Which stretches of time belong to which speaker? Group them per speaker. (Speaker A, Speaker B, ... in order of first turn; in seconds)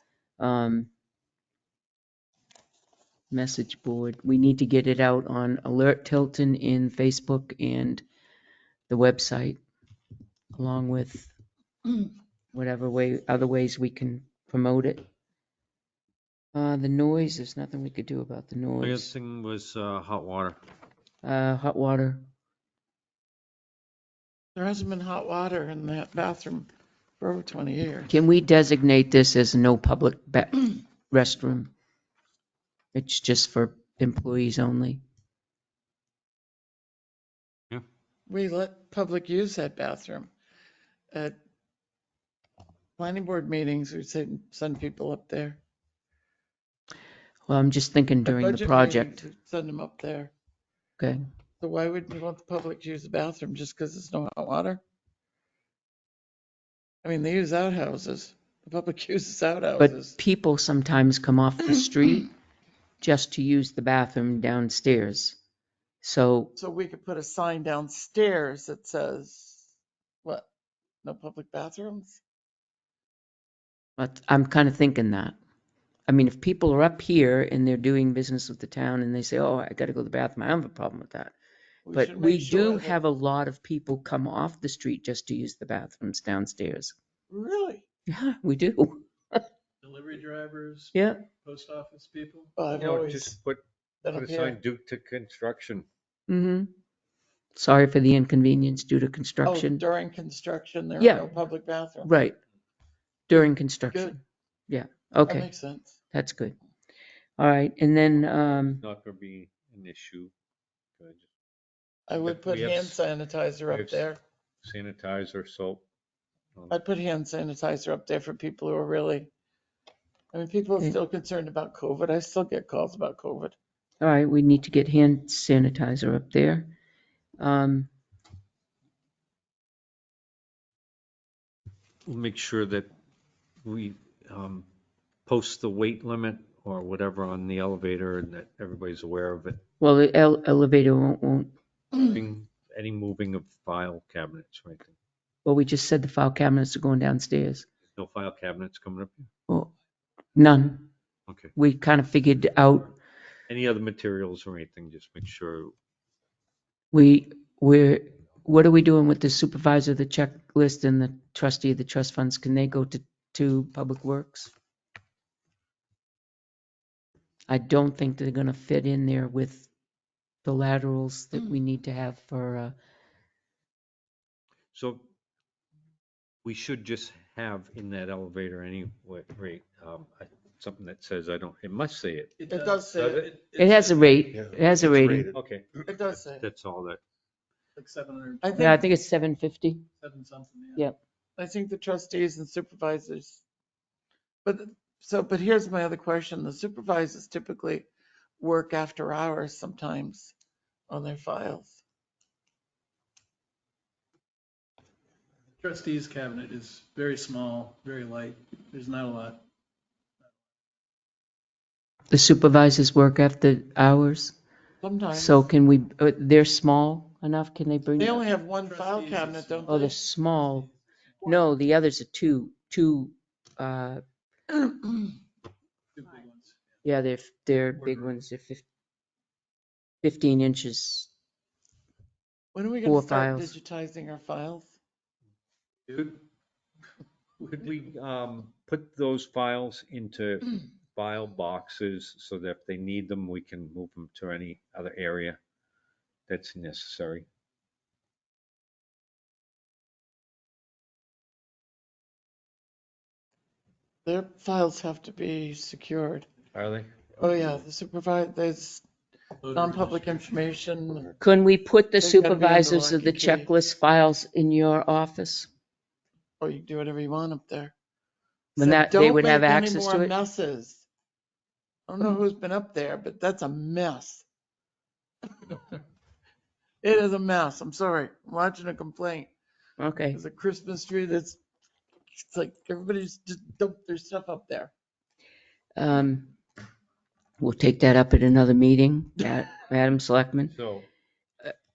Speaker A: 0.4-0.9, 3.3-8.0, 8.9-9.6, 10.6-11.3, 12.5-15.0, 16.5-19.1, 21.2-22.3, 28.1-31.7, 32.9-35.0, 47.5-49.2, 59.8-62.3, 63.0-65.4, 66.0-66.5, 74.0-75.4, 76.1-81.3, 81.9-87.0, 88.1-89.4, 90.9-91.2, 96.3-96.7, 97.5-99.8, 101.0-101.3, 102.0-102.4, 103.3-105.5, 106.1-106.6, 107.4-108.8, 124.0-126.7, 127.4-127.9, 139.8-141.5, 145.4-147.7, 150.3-150.9, 151.6-153.0, 156.9-164.5, 167.5-169.7, 170.4-172.8, 183.6-185.3, 188.6-189.9, 212.1-214.3, 215.1-218.2, 219.7-220.7, 221.2-224.0, 226.8-228.7, 230.0-231.1, 232.8-233.5, 261.2-265.5, 268.6-270.1, 279.8-280.2, 285.8-286.3, 287.4-290.5
Speaker B: 18.8-20.6, 92.7-95.9, 108.8-110.3, 111.0-111.3, 112.2-113.0, 113.7-114.1, 114.6-115.8, 132.1-132.9, 133.6-134.7, 135.3-139.6, 141.9-144.9, 147.9-149.3, 151.3-151.5, 153.5-155.7, 174.7-175.1, 176.4-182.3, 183.0-183.3, 185.3-185.7, 186.4-187.0, 235.9-236.2, 237.4-245.4, 246.3-247.3, 256.5-256.9, 290.5-290.9
Speaker C: 24.6-26.7, 27.2-28.1, 38.3-40.3, 43.0-45.6, 48.2-50.3, 51.6-54.8, 57.0-60.2, 66.6-69.7, 71.0-72.2, 81.9-83.0, 87.3-87.8, 92.6-93.4, 94.0-94.6, 99.4-102.1, 103.3-104.2, 105.2-106.0, 112.1-114.2, 116.7-119.3, 120.3-123.5, 182.5-183.3, 185.8-186.5, 188.4-188.8, 191.4-193.4, 194.4-197.9, 198.4-200.3, 200.9-201.8, 214.8-215.4, 218.0-219.9, 232.5-234.8, 254.1-256.3, 257.2-258.8, 259.5-261.1, 262.0-263.5, 266.4-267.7, 268.6-270.9, 271.9-274.3, 275.5-275.8, 276.8-279.3, 280.1-281.4, 282.2-284.7
Speaker D: 89.8-92.5, 182.4-184.2, 187.8-188.8, 190.0-190.9, 205.6-209.4, 218.6-221.3, 225.9-226.6, 259.4-260.2